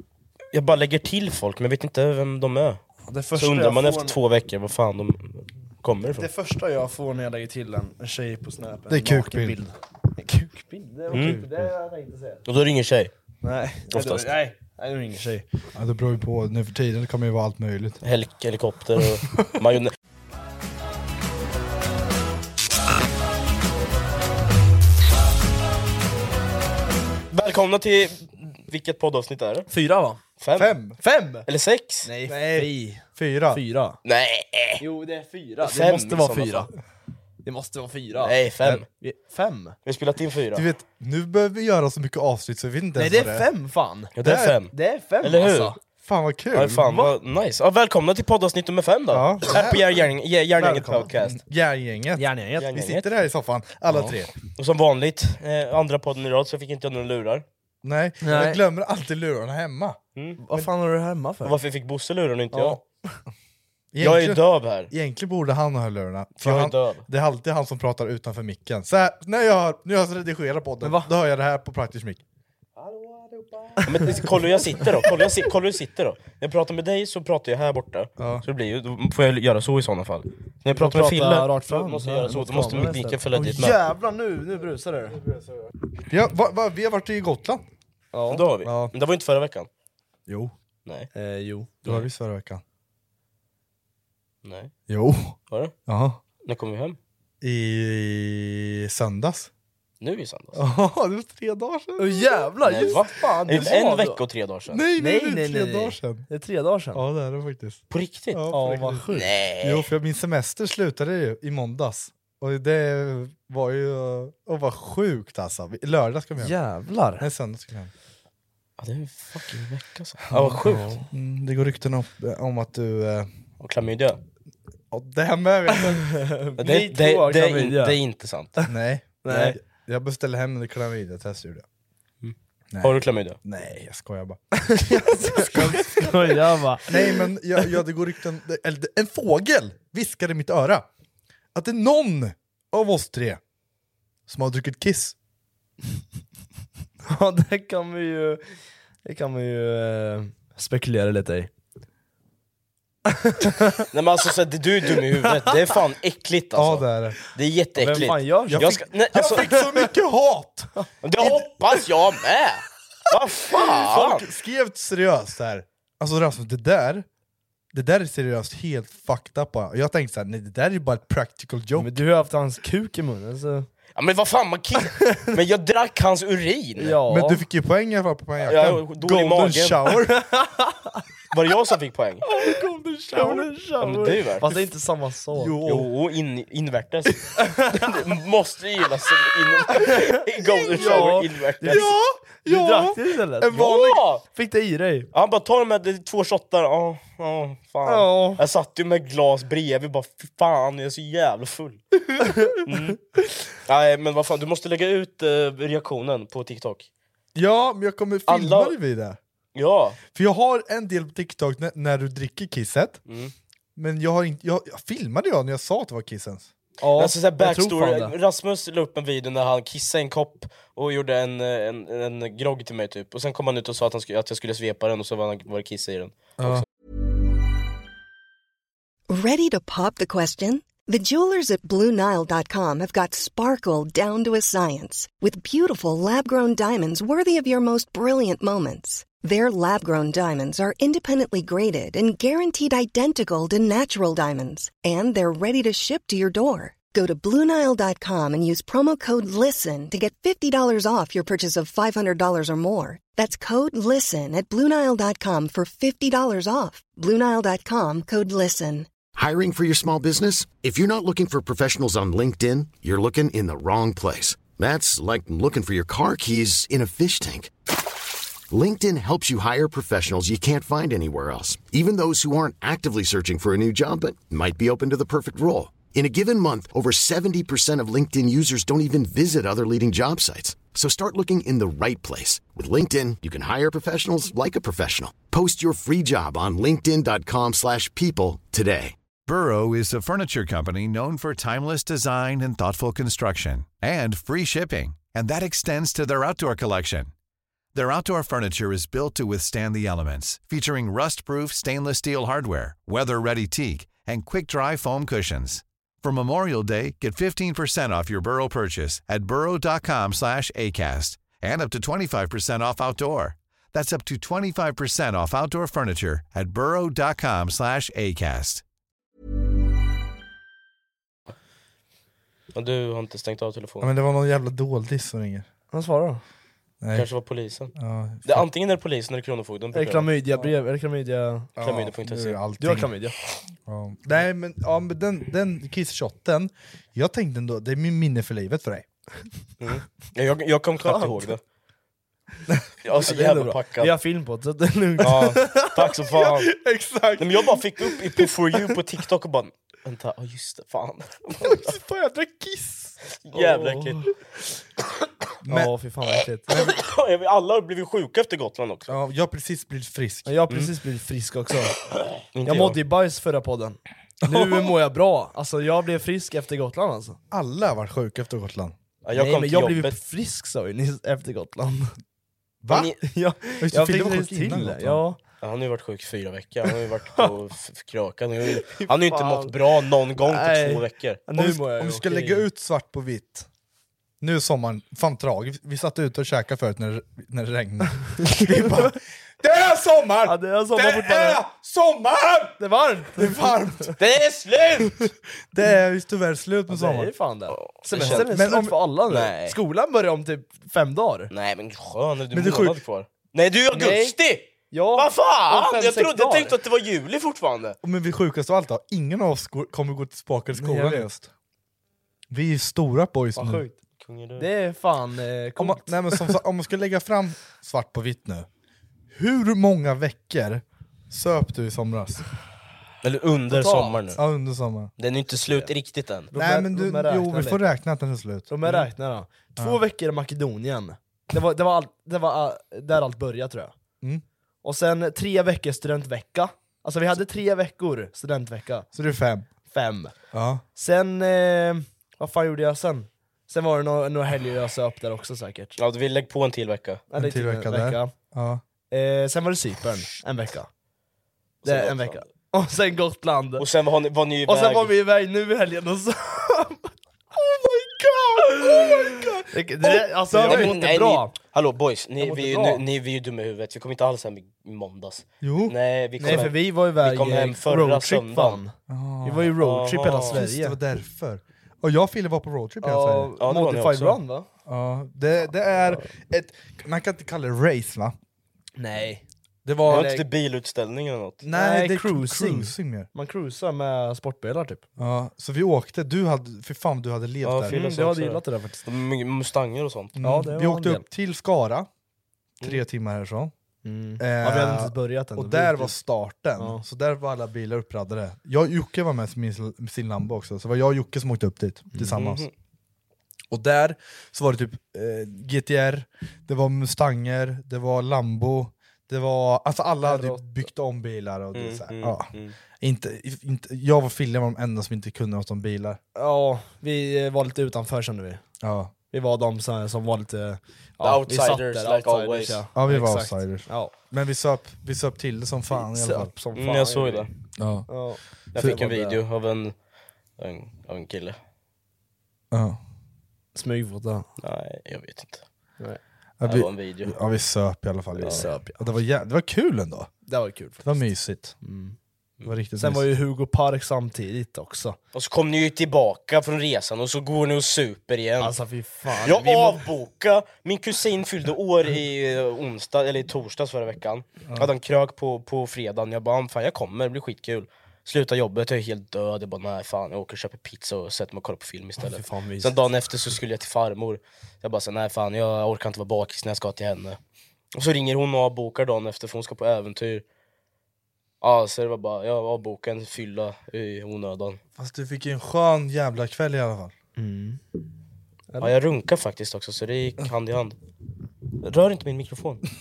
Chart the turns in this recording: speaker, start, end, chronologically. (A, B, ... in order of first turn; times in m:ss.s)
0:00.5-0:02.8 A
0:03.1-0:04.2 B
0:03.3-0:06.3 A
0:06.1-0:12.4 B
0:08.9-0:09.6 C
0:11.1-0:11.4 A
0:12.5-0:13.1 A
0:13.4-0:15.4 B
0:13.9-0:14.4 A
0:15.7-0:18.0 C
0:18.0-0:19.9 A
0:27.3-0:29.7 A
0:29.7-0:30.2 B
0:30.4-0:30.7 A
0:30.6-0:31.0 C
0:31.0-0:31.4 B
0:31.4-0:32.1 A
0:32.0-0:34.0 B
0:32.3-0:33.6 C
0:34.0-0:34.8 A
0:34.8-0:36.7 B
0:35.6-0:36.6 A
0:37.4-0:38.4 B
0:38.2-0:38.8 A
0:38.9-0:39.8 B
0:39.8-0:40.6 A
0:40.5-0:43.5 C
0:43.0-0:44.1 B
0:44.2-0:45.7 A
0:44.2-0:44.6 C
0:44.7-0:45.8 B
0:46.0-0:46.9 C
0:46.5-0:51.4 A
0:46.8-0:47.1 B
0:49.1-0:49.9 C
0:50.6-0:51.0 B
0:50.6-0:54.3 C
0:52.2-0:52.7 B
0:52.6-0:53.0 A
0:53.9-0:54.2 B
0:54.6-0:57.4 A
0:57.8-1:00.0 C
0:58.2-0:58.6 B
1:00.4-1:01.6 B
1:01.4-1:02.8 A
1:02.5-1:03.2 B
1:03.9-1:12.2 C
1:04.0-1:04.9 A
1:06.4-1:07.0 A
1:10.8-1:11.1 B
1:13.0-1:14.2 C
1:13.8-1:14.1 B
1:13.8-1:23.8 A
1:18.2-1:18.4 C
1:20.7-1:25.2 B
1:26.1-1:27.6 C
1:28.1-1:28.4 B
1:28.3-1:29.7 A
1:28.6-1:28.9 C
1:30.3-1:30.5 C
1:31.1-1:31.8 B
1:31.8-1:32.6 C
1:34.4-1:34.7 A
1:34.9-1:36.2 C
1:36.4-1:37.0 A
1:37.4-1:39.5 C
1:40.0-1:40.6 A
1:40.5-1:42.3 C
1:42.0-1:44.2 B
1:42.6-1:44.8 A
1:42.8-1:43.7 C
1:44.7-1:46.3 C
1:45.0-1:47.0 B
1:46.9-1:56.5 C
1:47.9-1:48.4 A
1:48.5-1:49.2 B
1:49.1-1:49.9 A
1:56.4-1:57.2 B
1:57.2-1:57.9 C
1:58.8-2:01.0 A
2:00.3-2:03.3 C
2:00.7-2:01.0 B
2:03.6-2:04.2 A
2:04.9-2:06.1 C
2:05.8-2:08.0 B
2:06.6-2:08.6 A
2:08.7-2:11.6 C
2:09.2-2:09.6 B
2:12.2-2:13.4 A
2:12.7-2:14.4 C
2:14.6-2:17.3 B
2:15.2-2:16.3 C
2:16.9-2:20.9 C
2:21.5-2:23.4 C
2:24.3-2:25.1 C
2:27.0-2:31.5 B
2:33.1-2:33.9 B
2:33.9-2:39.5 A
2:36.6-2:37.2 C
2:37.8-2:39.4 B
2:38.5-2:41.4 C
2:41.0-2:44.2 A
2:43.7-2:47.0 C
2:47.7-2:52.0 C
2:51.8-2:53.7 B
2:53.9-2:57.0 A
2:55.0-2:55.3 B
2:56.8-2:57.4 B
2:57.1-3:00.2 C
2:58.4-2:59.8 A
3:00.1-3:01.0 B
3:01.3-3:02.2 A
3:02.2-3:05.6 B
3:02.4-3:03.5 C
3:03.8-3:04.6 A
3:05.3-3:05.9 C
3:05.6-3:11.9 A
3:07.4-3:07.8 B
3:09.8-3:13.7 B
3:10.8-3:11.1 C
3:11.7-3:14.0 C
3:13.5-3:14.2 A
3:14.2-3:15.1 B
3:15.1-3:21.8 A
3:17.8-3:18.4 B
3:22.2-3:22.6 B
3:22.6-3:23.0 A
3:23.6-3:26.9 A
3:27.3-3:29.2 C
3:28.3-3:28.7 A
3:29.5-3:30.0 A
3:30.1-3:33.0 C
3:33.1-3:33.3 A
3:33.8-3:36.5 C
3:36.8-3:38.2 B
3:36.9-3:46.6 A
3:46.4-3:46.6 C
3:49.1-4:18.9 D
4:19.1-4:27.5 E
4:28.5-4:48.9 E
4:49.2-4:57.1 F
4:57.7-5:18.6 F
5:22.5-5:23.9 A
5:23.8-5:25.5 C
5:25.7-5:26.2 B
5:26.8-5:27.1 C
5:26.9-5:27.7 A
5:27.7-5:28.4 C
5:28.2-5:30.1 A
5:29.7-5:31.5 B
5:31.6-5:32.9 C
5:31.6-5:32.4 A
5:32.6-5:33.1 B
5:33.6-5:38.9 C
5:39.6-5:41.4 A
5:40.8-5:41.3 B
5:42.8-5:43.9 A
5:43.0-5:45.8 B
5:45.0-5:46.5 A
5:46.1-5:48.2 C
5:47.2-5:51.7 A
5:51.4-5:52.9 C
5:53.2-5:54.1 A
5:53.3-5:54.1 B
5:55.4-5:55.7 C
5:55.5-5:56.5 B
5:56.5-5:56.7 C
5:56.5-5:59.0 A
5:58.9-6:00.3 C
6:00.2-6:01.7 B
6:02.3-6:02.8 A
6:02.4-6:07.2 B
6:04.2-6:04.7 C
6:07.3-6:08.7 C
6:09.0-6:10.0 A
6:09.1-6:11.9 B
6:12.6-6:12.9 C
6:12.7-6:13.0 A
6:13.0-6:15.2 B
6:13.6-6:15.0 C
6:15.4-6:21.2 A
6:18.5-6:19.5 B
6:20.2-6:22.4 B
6:21.3-6:23.5 C
6:24.2-6:32.6 C
6:28.3-6:28.8 B
6:30.2-6:31.4 B
6:32.6-6:33.9 B
6:33.2-6:33.9 C
6:34.0-6:35.1 A
6:35.5-6:37.1 C
6:36.7-6:41.3 B
6:37.5-6:38.3 A
6:38.0-6:38.7 C
6:39.1-6:39.6 A
6:41.3-6:47.8 A
6:42.3-6:42.8 C
6:43.7-6:44.1 B
6:44.7-6:46.5 B
6:47.8-6:51.3 C
6:50.6-6:51.1 B
6:52.3-6:53.6 C
6:53.4-6:53.8 B
6:54.0-6:54.5 A
6:54.4-6:56.3 B
6:55.6-6:58.5 C
6:59.1-7:02.2 C
7:03.0-7:04.2 A
7:03.5-7:04.0 B
7:04.2-7:04.9 C
7:05.0-7:06.3 A
7:06.3-7:07.6 B
7:06.3-7:08.9 C
7:08.5-7:13.7 B
7:14.6-7:18.9 B
7:18.9-7:19.5 C
7:19.6-7:20.1 B
7:20.3-7:20.6 C
7:20.7-7:25.8 B
7:25.8-7:27.0 A
7:27.1-7:28.1 B
7:27.2-7:28.6 C
7:28.9-7:30.7 B
7:31.6-7:32.2 A
7:31.6-7:33.6 B
7:33.6-7:34.9 A
7:34.4-7:36.9 B
7:37.6-7:40.8 C
7:39.5-7:41.3 B
7:40.3-7:48.6 A
7:42.2-7:42.8 B
7:45.4-7:46.5 C
7:46.2-7:50.8 B
7:48.9-7:49.5 C
7:49.6-7:50.4 A
7:50.3-7:53.3 C
7:52.8-7:54.5 B
7:53.4-7:54.2 A
7:54.7-7:58.2 C
7:58.8-7:59.2 B
7:59.6-8:00.1 C
7:59.8-8:00.2 B
7:59.9-8:01.4 A
8:01.4-8:03.1 C
8:01.5-8:04.8 B
8:05.0-8:07.8 C
8:07.4-8:10.2 A
8:07.7-8:08.8 B
8:10.2-8:11.9 C
8:10.2-8:11.0 B
8:12.6-8:13.5 C
8:13.8-8:15.9 B
8:14.2-8:22.5 C
8:21.9-8:22.2 B
8:22.2-8:22.5 A
8:23.5-8:32.3 C
8:30.0-8:30.5 B
8:31.5-8:32.6 A
8:32.8-8:36.0 C
8:36.1-8:38.4 B
8:38.6-8:38.9 C
8:39.1-8:43.9 B
8:41.0-8:42.6 A
8:42.7-8:46.3 C
8:45.7-8:47.3 B
8:46.5-8:47.3 A
8:47.6-8:47.9 C
8:47.9-8:49.2 B
8:48.5-8:49.7 A
8:50.4-8:51.4 A
8:52.5-8:52.8 C
8:53.5-8:54.3 B
8:54.4-8:55.4 A
8:56.4-9:00.1 C
8:56.4-8:57.1 A
8:58.2-8:58.8 B
9:00.2-9:01.0 B
9:00.8-9:01.6 C
9:01.6-9:02.0 B
9:02.4-9:03.1 C
9:02.8-9:05.0 B
9:05.1-9:08.5 A
9:08.4-9:09.8 B
9:09.2-9:27.2 A
9:22.0-9:22.7 B
9:27.7-9:30.2 A
9:31.4-9:34.6 A
9:34.8-9:36.9 C
9:37.2-9:37.6 B
9:38.6-9:40.8 A
9:41.6-9:42.6 A